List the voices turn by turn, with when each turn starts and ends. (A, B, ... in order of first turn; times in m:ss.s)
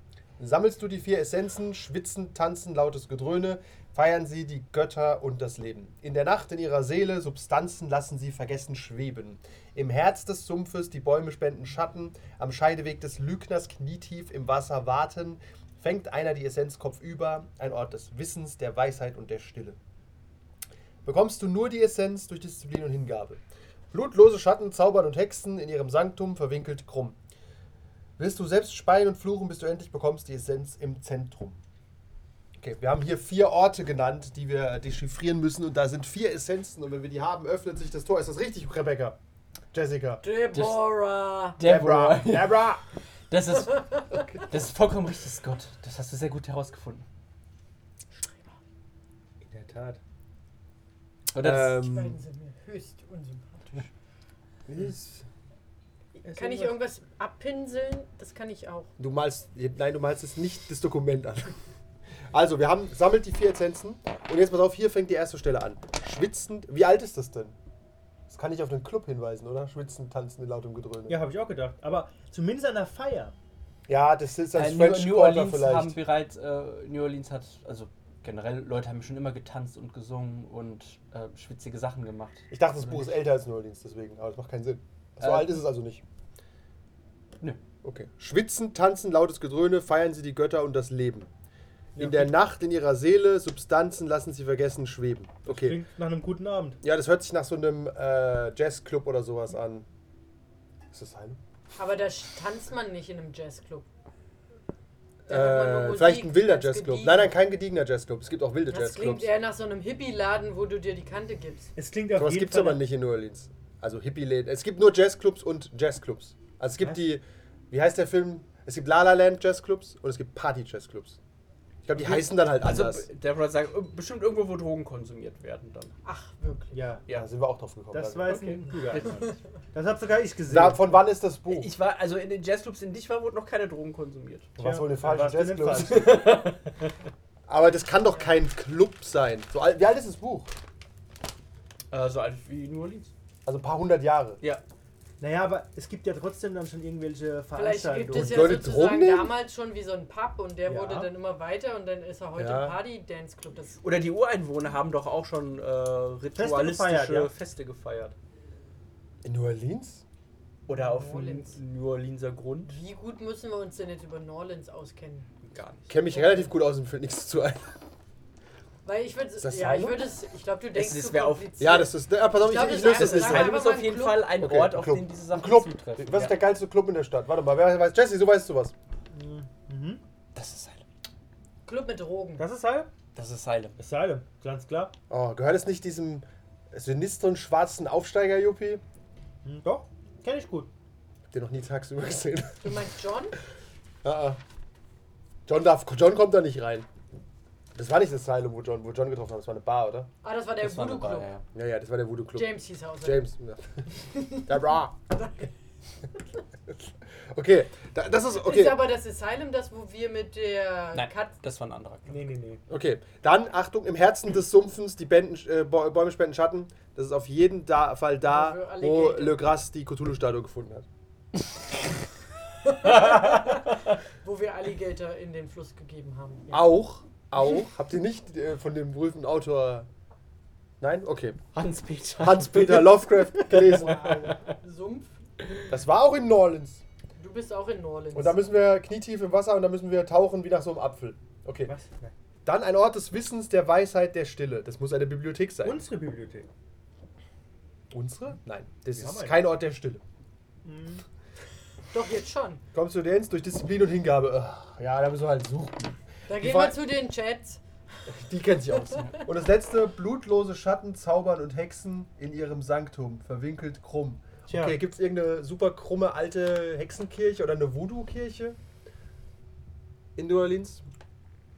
0:00.4-0:19.8 A
0:21.0-0:23.4 A
0:23.9-0:27.2 A
0:28.2-0:31.6 A
0:32.6-0:39.2 A
0:39.7-0:40.2 A
0:40.2-0:41.6 B
0:40.5-0:40.8 C
0:41.6-0:42.7 C
0:41.6-0:42.8 A
0:43.3-0:47.1 C
0:43.7-0:44.2 B
0:48.2-0:48.5 B
0:49.4-0:50.0 D
0:51.3-0:51.8 C
0:51.4-0:52.2 A
0:51.8-0:53.9 B
0:54.7-0:55.2 A
0:56.2-0:58.9 B
0:56.2-0:56.8 D
0:59.0-1:01.6 A
1:02.3-1:07.6 A
1:08.3-1:11.2 A
1:11.1-1:13.3 D
1:13.9-1:16.0 A
1:14.5-1:23.0 C
1:22.5-1:26.0 A
1:25.2-1:25.6 C
1:27.8-1:31.3 A
1:31.9-1:32.3 D
1:32.0-1:35.8 A
1:35.5-1:36.8 D
1:36.8-1:39.9 A
1:40.9-1:41.4 A
1:41.8-1:43.9 B
1:45.3-1:47.4 B
1:45.3-1:49.3 A
1:48.7-1:51.7 B
1:51.8-1:52.8 D
1:52.2-2:01.2 A
2:01.8-2:03.1 A
2:02.0-2:05.9 C
2:06.0-2:06.8 B
2:06.7-2:07.0 D
2:07.1-2:08.4 A
2:07.9-2:11.0 D
2:08.3-2:09.2 C
2:10.5-2:11.7 A
2:11.5-2:14.5 C
2:14.6-2:16.4 D
2:14.6-2:16.4 A
2:15.8-2:16.6 C
2:17.5-2:20.5 A
2:21.9-2:23.1 C
2:23.4-2:24.4 A
2:25.2-2:28.6 D
2:27.6-2:33.8 B
2:28.1-2:29.3 A
2:30.6-2:31.1 D
2:32.4-2:32.8 A
2:33.8-2:38.1 C
2:36.4-2:37.3 D
2:39.2-2:40.0 A
2:40.7-2:42.8 C
2:40.7-2:41.6 B
2:42.7-2:45.3 B
2:45.4-2:45.9 C
2:45.9-2:47.7 A
2:46.1-2:46.5 B
2:48.8-2:54.3 B
2:49.4-2:50.1 A
2:50.7-2:51.5 C
2:51.6-2:53.6 A
2:52.6-2:56.4 C
2:54.4-2:58.7 A
2:59.1-3:00.0 D
3:00.4-3:00.8 C
3:01.6-3:02.4 B
3:02.4-3:02.9 D
3:03.1-3:03.8 C
3:03.8-3:04.9 D
3:05.1-3:08.8 A
3:09.4-3:10.7 D
3:11.3-3:12.8 A
3:12.6-3:13.4 B
3:14.0-3:14.4 A
3:15.4-3:16.9 A
3:17.7-3:20.1 A
3:20.2-3:21.3 B
3:20.6-3:21.4 C
3:21.5-3:23.8 A
3:22.4-3:23.3 B
3:24.1-3:24.4 B
3:24.4-3:25.0 A
3:25.1-3:25.5 B
3:27.3-3:28.9 A
3:28.4-3:31.3 B
3:30.9-3:32.1 C
3:32.1-3:32.6 D
3:32.7-3:40.9 A
3:38.2-3:39.6 B
3:42.6-3:46.5 B
3:46.5-3:49.9 A
3:50.8-3:51.4 A
3:51.5-3:54.4 C
3:52.2-3:54.2 A
3:53.5-3:55.2 B
3:55.7-3:56.8 A
3:57.2-3:58.4 B
3:58.1-4:01.7 A
4:01.6-4:02.1 D
4:02.4-4:05.9 A
4:05.6-4:06.5 D
4:07.9-4:10.0 A
4:09.0-4:09.4 D
4:10.6-4:11.0 D
4:11.9-4:12.6 B
4:12.7-4:16.8 A
4:16.3-4:17.6 B
4:18.1-4:28.6 A
4:18.8-4:19.1 B
4:24.5-4:24.8 D
4:30.2-4:30.9 A